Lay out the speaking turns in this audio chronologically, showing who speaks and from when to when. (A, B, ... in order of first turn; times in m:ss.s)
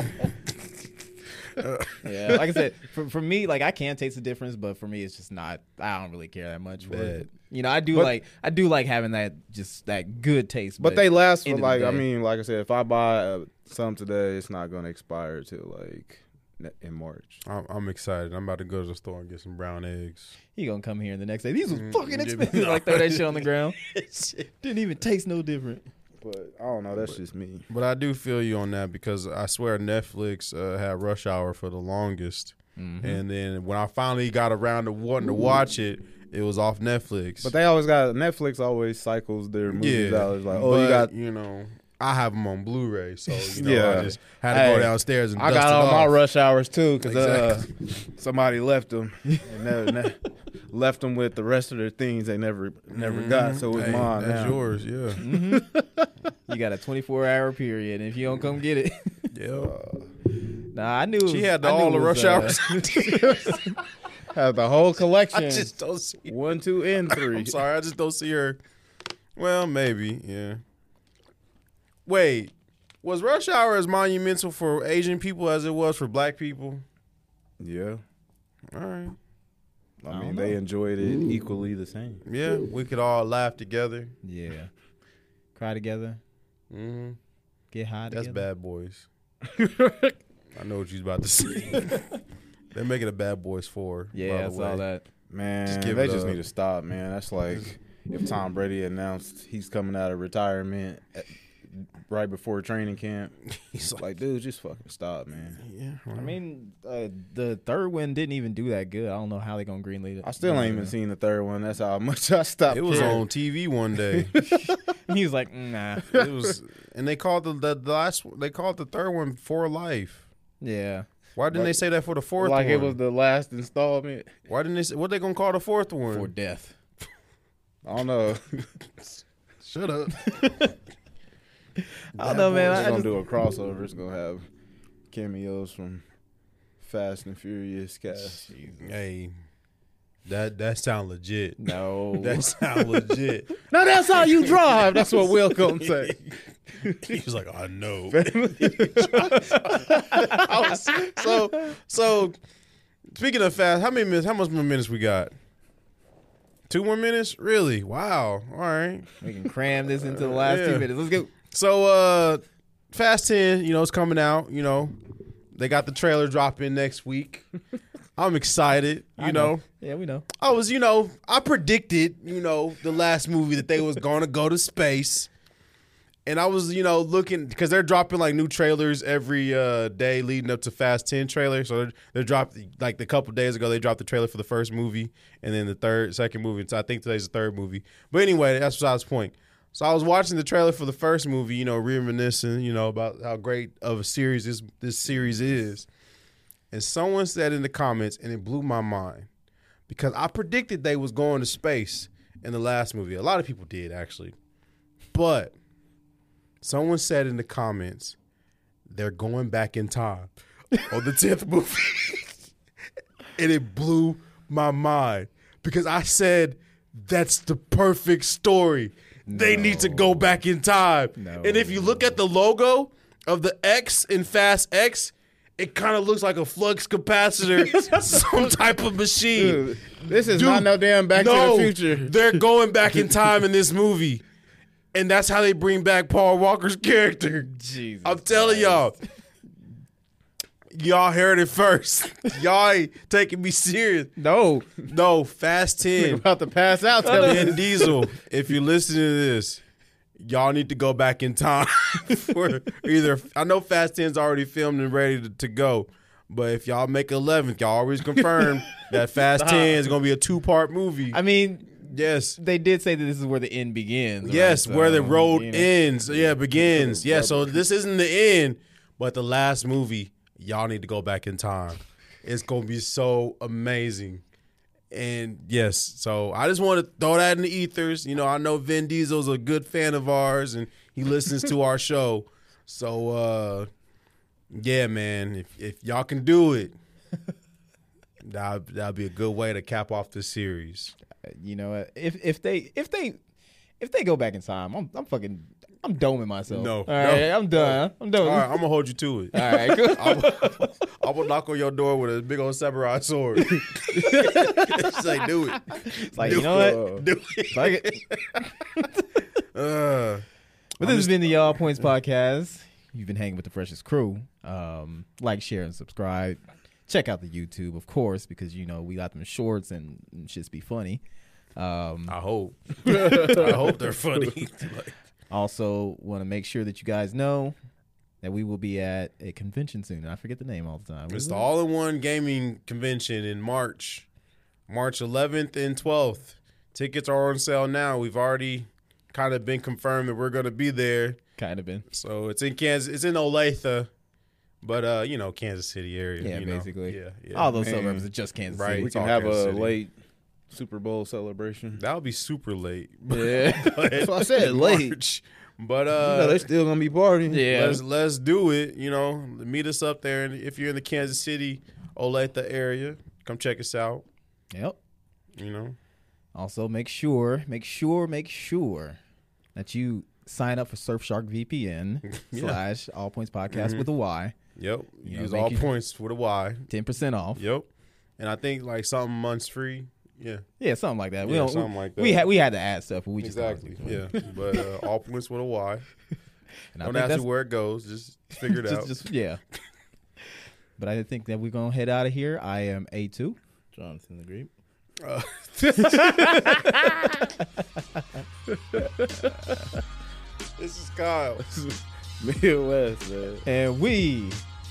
0:01.6-0:02.4 A
0:02.0-0:12.0 B
0:06.9-0:07.3 A
0:10.8-0:17.4 C
0:17.4-0:20.4 A
0:20.6-0:23.8 B
0:21.7-0:24.5 A
0:24.5-0:25.9 B
0:26.2-0:27.7 C
0:27.7-0:37.5 A
0:32.8-0:33.2 B
0:37.4-0:41.1 C
0:39.7-0:46.1 A
0:43.5-0:54.6 C
0:47.0-0:47.6 A
0:49.3-0:49.6 B
0:52.9-0:55.2 A
0:55.2-0:55.7 B
0:55.2-0:56.1 C
0:56.5-0:59.3 B
0:59.3-0:59.8 A
0:59.6-1:00.1 C
1:00.7-1:03.7 B
1:01.3-1:03.7 A
1:04.3-1:05.7 C
1:05.3-1:06.4 A
1:06.3-1:07.6 C
1:07.1-1:08.6 A
1:09.4-1:10.6 A
1:12.1-1:16.8 A
1:17.6-1:18.0 C
1:18.7-1:19.2 A
1:20.0-1:22.2 C
1:20.1-1:20.6 B
1:22.3-1:24.1 A
1:24.2-1:24.7 B
1:25.6-1:26.2 B
1:26.7-1:27.2 A
1:27.7-1:28.5 B
1:28.1-1:29.1 A
1:29.4-1:30.2 C
1:30.5-1:32.1 A
1:32.7-1:34.8 A
1:34.1-1:35.0 B
1:35.3-1:43.4 C
1:35.7-1:36.4 A
1:43.5-1:44.0 A
1:44.0-1:45.6 C
1:45.6-1:46.4 A
1:46.1-1:50.9 B
1:50.2-1:53.2 C
1:52.7-1:54.3 A
1:54.1-1:54.6 C
1:54.7-1:56.1 B
1:56.1-2:00.3 A
1:56.1-1:56.5 C
2:00.6-2:01.1 B
2:01.4-2:03.0 A
2:01.5-2:01.8 C
2:02.4-2:04.3 C
2:04.5-2:06.3 A
2:06.1-2:06.8 B
2:07.8-2:09.2 C
2:09.6-2:10.5 A
2:10.2-2:10.5 B
2:11.8-2:13.2 B
2:12.2-2:14.4 C
2:12.2-2:12.5 A
2:15.1-2:16.0 C
2:16.8-2:18.4 C
2:18.2-2:19.0 B
2:18.8-2:19.3 A
2:20.3-2:23.5 A
2:21.6-2:23.0 B
2:23.7-2:26.2 C
2:24.5-2:26.2 A
2:26.8-2:27.1 C
2:26.8-2:32.4 A
2:28.1-2:30.7 C
2:29.4-2:30.5 B
2:33.1-2:35.3 A
2:36.7-2:39.1 A
2:39.2-2:41.3 B
2:40.0-2:40.9 A
2:41.4-2:45.0 A
2:45.5-2:47.5 A
2:48.2-2:49.6 A
2:49.2-2:50.3 B
2:50.4-2:55.3 A
2:56.3-3:15.9 A
3:16.7-3:19.3 A
3:19.9-3:24.4 A
3:25.1-3:25.6 A
3:26.6-3:28.2 A
3:28.9-3:32.4 A
3:33.4-3:49.6 A
3:39.3-3:40.3 B
3:41.2-3:42.0 B
3:49.3-3:52.1 C
3:50.2-3:54.2 A
3:54.9-3:59.0 A
3:57.5-3:59.0 B
4:00.7-4:04.1 A
4:04.2-4:04.7 B
4:04.8-4:06.2 A
4:06.0-4:08.1 C
4:07.0-4:07.5 B
4:07.1-4:09.6 A
4:10.2-4:21.2 A
4:19.3-4:19.9 C
4:21.1-4:21.8 B
4:21.8-4:22.4 A
4:22.4-4:25.0 B
4:24.2-4:34.2 A
4:24.6-4:27.6 C
4:34.9-4:43.7 A
4:44.5-4:46.7 A
4:48.2-4:50.9 A
4:51.2-4:53.2 B
4:53.8-4:58.6 B
4:56.5-5:08.2 A
4:59.3-5:00.7 B
5:04.0-5:04.9 B
5:05.8-5:06.9 B
5:06.2-5:07.0 C
5:07.5-5:09.2 B
5:09.5-5:10.2 A
5:10.8-5:21.0 B
5:10.8-5:11.9 A
5:21.6-5:22.2 B
5:22.1-5:25.0 A
5:25.3-5:27.6 B
5:28.2-5:31.5 B
5:31.1-5:34.1 A
5:34.7-5:41.2 A
5:41.4-5:41.9 B
5:41.9-5:43.9 A
5:44.6-5:47.5 A
5:46.2-5:48.9 B
5:47.5-5:48.1 C
5:48.5-5:49.7 A
5:48.7-5:49.9 C
5:50.5-5:51.8 C
5:51.8-5:56.4 A
5:53.1-5:53.9 D
5:53.9-5:55.0 C
5:55.9-5:57.5 C
5:57.3-5:57.8 D
5:57.5-6:04.0 A
6:04.5-6:04.8 B
6:05.4-6:05.8 A
6:06.3-6:09.0 B
6:09.6-6:14.4 B
6:12.1-6:12.6 A
6:13.5-6:13.9 A
6:14.6-6:16.7 A
6:15.0-6:15.7 B
6:16.7-6:17.4 B
6:17.4-6:20.4 A
6:20.6-6:24.0 B
6:21.2-6:22.3 A
6:23.2-6:25.9 A
6:26.7-6:27.3 B
6:26.8-6:29.0 A
6:28.4-6:29.4 B
6:30.8-6:33.4 B
6:33.7-6:34.5 D
6:35.0-6:36.0 A
6:35.8-6:36.8 C
6:36.4-6:36.7 D
6:38.7-6:39.5 C
6:40.6-6:41.4 A
6:41.4-6:43.5 C
6:43.4-6:44.4 B